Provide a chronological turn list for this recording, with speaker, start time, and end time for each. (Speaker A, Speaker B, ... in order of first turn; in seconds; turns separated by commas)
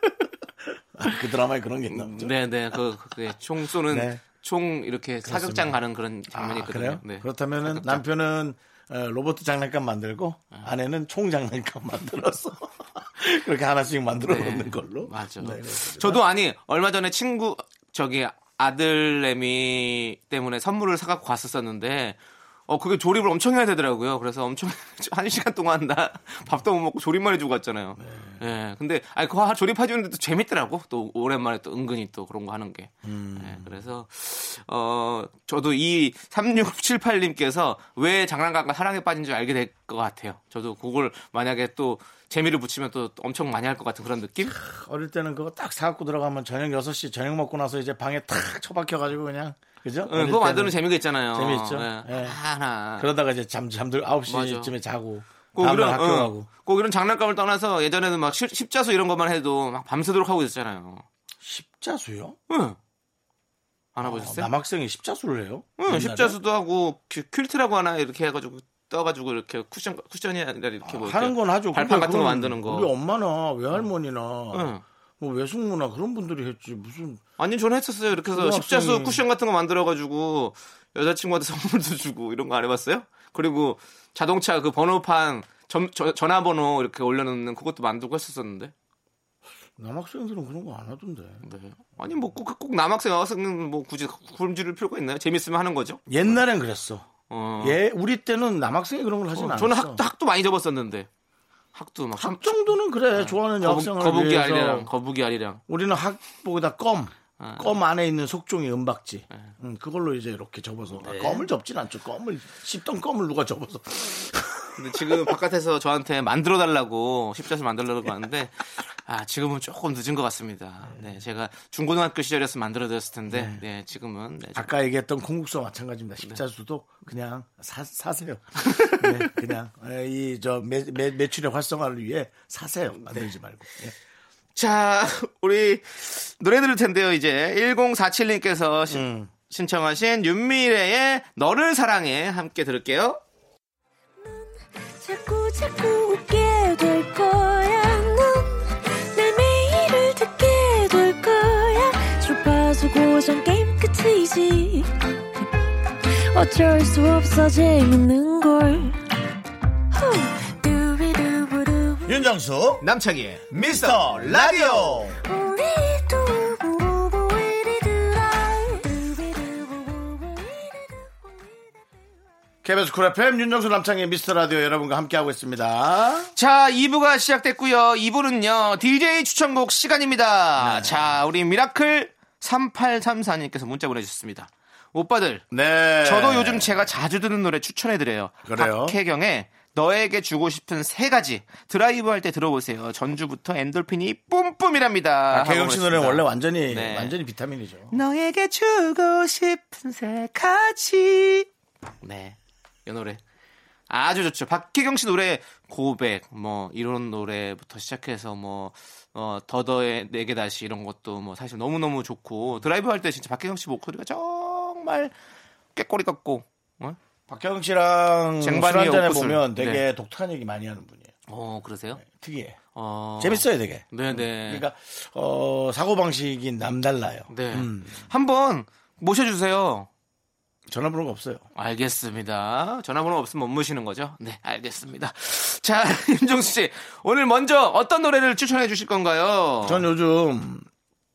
Speaker A: 0.9-2.3, Speaker B: 1.9-8.0, Speaker A: 3.9-4.2, Speaker A: 5.2-5.8, Speaker A: 6.3-16.2, Speaker B: 14.2-44.5, Speaker A: 28.0-28.4, Speaker A: 33.0-33.7, Speaker A: 44.4-52.4, Speaker B: 50.0-53.1, Speaker A: 53.0-56.5, Speaker B: 54.3-54.7, Speaker B: 55.5-61.0, Speaker A: 61.4-62.4, Speaker B: 62.5-62.8, Speaker B: 63.9-64.5, Speaker A: 64.0-66.4, Speaker B: 65.8-72.9, Speaker A: 70.8-77.2, Speaker B: 74.5-74.8, Speaker B: 77.4-88.7, Speaker A: 78.1-79.2, Speaker A: 89.8-91.5, Speaker B: 91.4-96.4, Speaker A: 96.1-97.1, Speaker B: 97.3-97.8, Speaker A: 97.6-100.0, Speaker B: 99.3-101.1, Speaker B: 101.7-105.6, Speaker A: 102.2-104.9, Speaker A: 105.7-115.3, Speaker B: 107.4-107.7, Speaker B: 111.0-111.5, Speaker B: 114.8-124.7, Speaker A: 123.3-123.6, Speaker A: 124.5-133.9, Speaker B: 128.6-129.3, Speaker B: 133.0-133.3, Speaker B: 134.5-143.2, Speaker A: 138.9-139.3, Speaker C: 144.2-155.4, Speaker C: 156.3-159.0, Speaker C: 159.9-162.3, Speaker A: 162.1-162.8, Speaker B: 162.8-165.0, Speaker A: 163.5-165.2, Speaker C: 165.2-171.5, Speaker A: 172.6-176.3, Speaker B: 176.3-185.4, Speaker A: 180.6-181.2, Speaker A: 185.5-186.8, Speaker B: 186.0-197.1, Speaker A: 188.4-189.0, Speaker A: 195.3-198.0, Speaker B: 197.9-201.5, Speaker B: 202.0-203.2, Speaker B: 203.9-215.1, Speaker B: 215.7-217.0, Speaker A: 217.3-221.1, Speaker B: 218.4-219.8, Speaker B: 221.3-222.0, Speaker A: 222.0-222.6, Speaker B: 222.7-224.6, Speaker A: 223.2-228.1, Speaker B: 227.3-229.9, Speaker A: 230.7-231.4, Speaker B: 231.5-239.9, Speaker A: 239.6-240.7